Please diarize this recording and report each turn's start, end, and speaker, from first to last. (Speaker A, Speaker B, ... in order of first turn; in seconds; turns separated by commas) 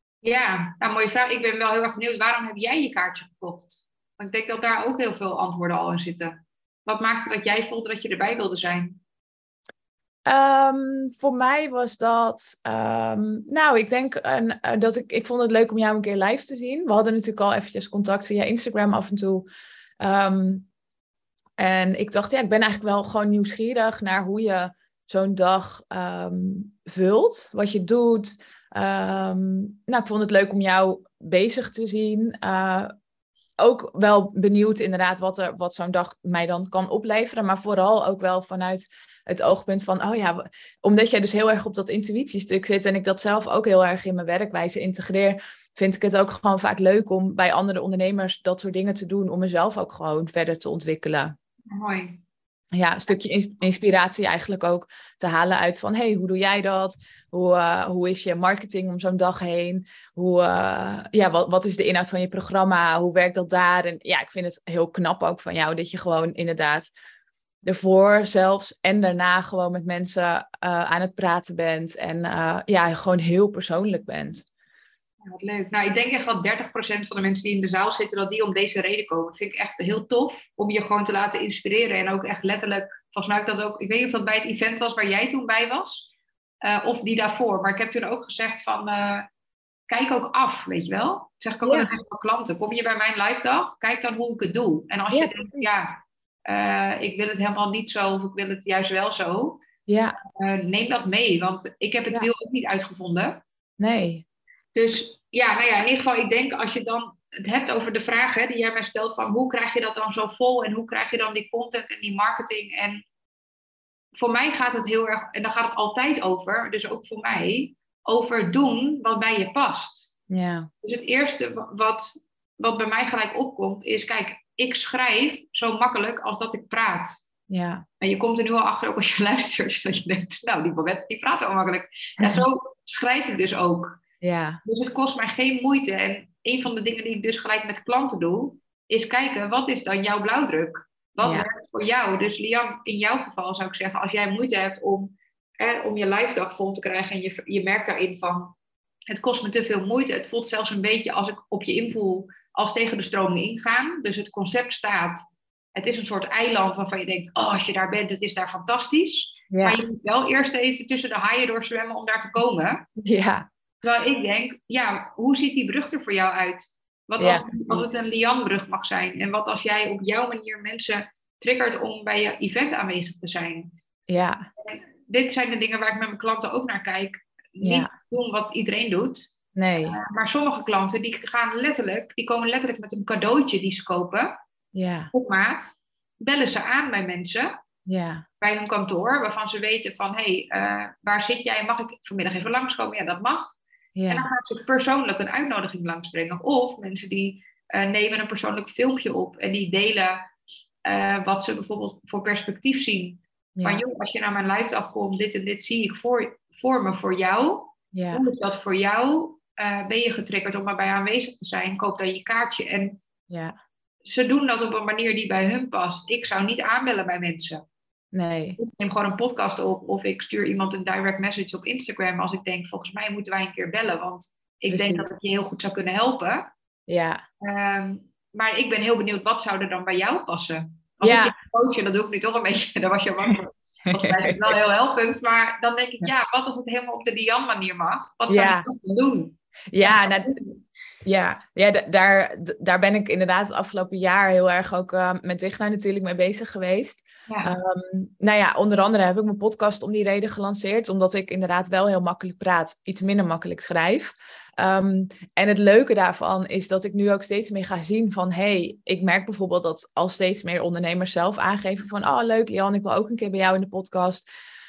Speaker A: 0.2-9.0, Speaker B: 10.3-19.5, Speaker B: 20.0-20.7, Speaker B: 21.6-32.9, Speaker B: 33.6-51.4, Speaker A: 51.7-52.2, Speaker B: 52.7-66.9, Speaker B: 67.6-74.5, Speaker A: 75.2-86.1, Speaker A: 86.6-89.3, Speaker A: 89.9-99.6, Speaker B: 91.6-91.9, Speaker B: 95.1-95.8, Speaker B: 99.9-100.2, Speaker A: 100.3-103.4, Speaker B: 103.8-104.2, Speaker A: 104.8-113.0, Speaker A: 114.2-120.1, Speaker B: 120.3-120.7, Speaker A: 120.8-127.2, Speaker B: 127.5-127.8, Speaker A: 128.0-134.0, Speaker B: 132.2-132.4, Speaker B: 134.2-134.6, Speaker A: 134.7-148.6, Speaker B: 141.2-141.5, Speaker A: 149.1-155.2, Speaker A: 155.8-162.9, Speaker B: 159.5-159.8, Speaker B: 163.0-163.5, Speaker A: 163.8-173.7, Speaker B: 167.2-167.8, Speaker B: 174.1-174.5, Speaker A: 174.6-179.3, Speaker B: 177.6-177.9, Speaker B: 179.6-180.0, Speaker A: 179.9-184.3, Speaker B: 184.8-185.1, Speaker A: 185.1-187.6, Speaker B: 187.9-188.2, Speaker A: 188.4-193.5, Speaker B: 194.0-194.3, Speaker A: 194.1-200.2, Speaker A: 200.8-213.0, Speaker B: 203.6-203.8, Speaker B: 207.9-208.2, Speaker B: 213.3-213.6, Speaker A: 214.1-217.6, Speaker B: 218.1-218.6, Speaker A: 218.6-226.5, Speaker B: 224.7-225.1, Speaker B: 226.9-227.2, Speaker A: 227.4-240.6, Speaker B: 231.0-231.4, Speaker B: 233.9-234.5, Speaker B: 238.3-238.7, Speaker B: 239.7-240.4, Speaker B: 241.0-264.3